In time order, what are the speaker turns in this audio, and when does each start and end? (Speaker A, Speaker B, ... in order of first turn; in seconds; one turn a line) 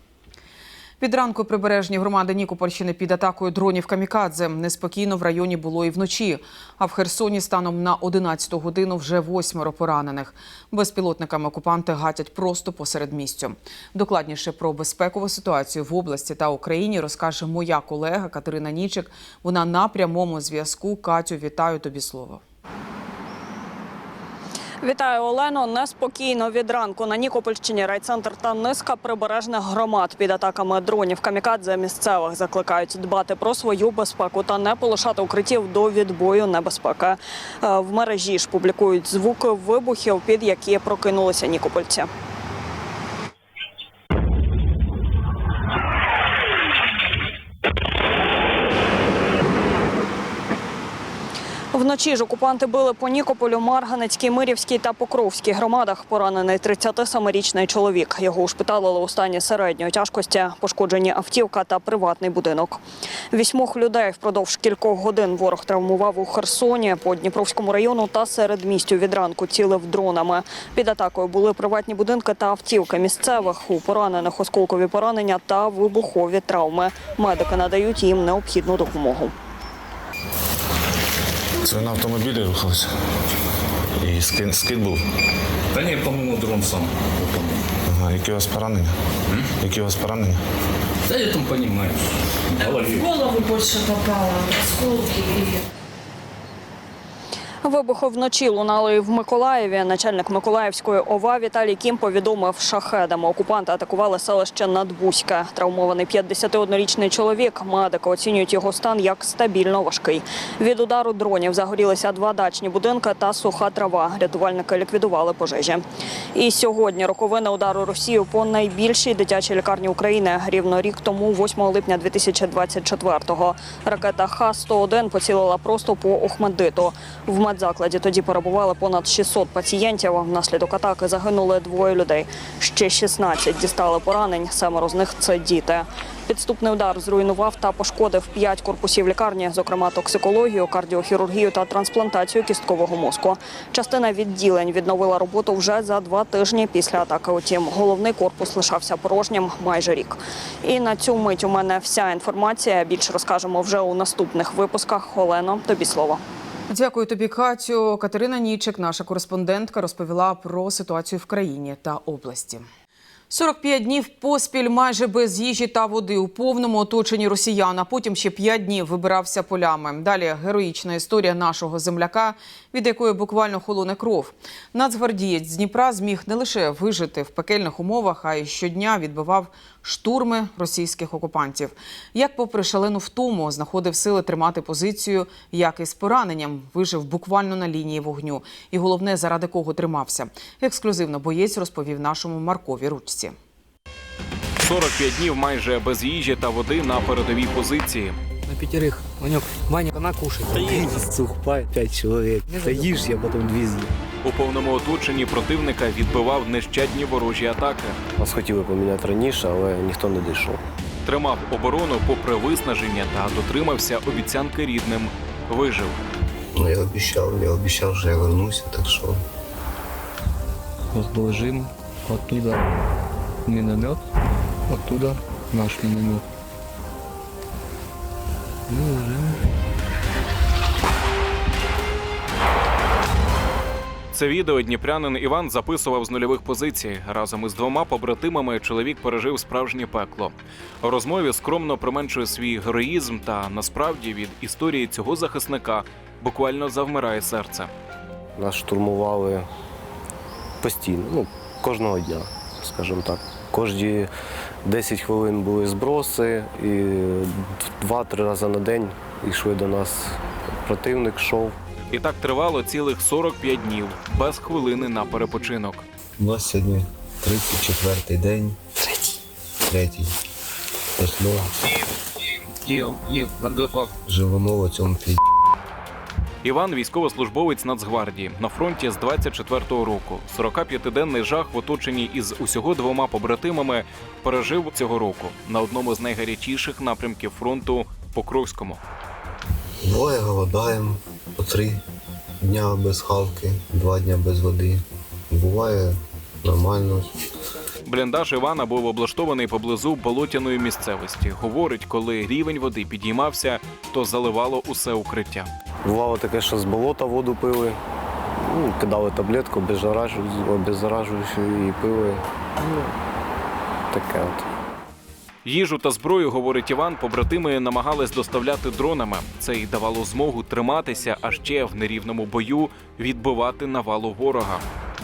Speaker A: 1.0-22.4
Speaker B: 24.8-42.1
Speaker B: 51.7-62.8
Speaker B: 63.3-79.3
Speaker C: 81.7-82.9
Speaker C: 84.0-85.0
Speaker D: 85.8-87.5
Speaker C: 87.9-88.9
Speaker C: 89.6-90.4
Speaker D: 91.1-92.0
Speaker E: 93.1-95.6
Speaker B: 97.6-115.8
Speaker B: 116.3-156.2
Speaker A: 156.7-162.7
Speaker A: 163.3-193.3
Speaker F: 194.6-198.2
Speaker G: 200.6-201.1
Speaker G: 202.7-203.5
Speaker F: 204.2-208.0
Speaker G: 208.2-210.6
Speaker F: 211.1-216.0
Speaker H: 216.6-219.2
Speaker I: 221.2-221.7
Speaker I: 222.3-222.6
Speaker I: 223.5-224.0
Speaker I: 224.7-226.2
Speaker I: 228.8-229.1
Speaker F: 234.1-247.7
Speaker G: 248.4-249.4
Speaker G: 250.6-254.1
Speaker G: 254.7-261.6
Speaker F: 261.9-265.9
Speaker H: 266.2-268.6
Speaker H: 269.7-270.1
Speaker H: 271.0-271.5
Speaker I: 272.7-273.9
Speaker H: 274.1-275.2
Speaker F: 276.4-288.8
Speaker H: 289.8-291.8
Speaker H: 292.4-297.1
Speaker F: 297.9-305.5
Speaker G: 305.8-307.8
Speaker G: 308.4-312.9
Speaker G: 313.9-314.4
Speaker F: 315.4-324.6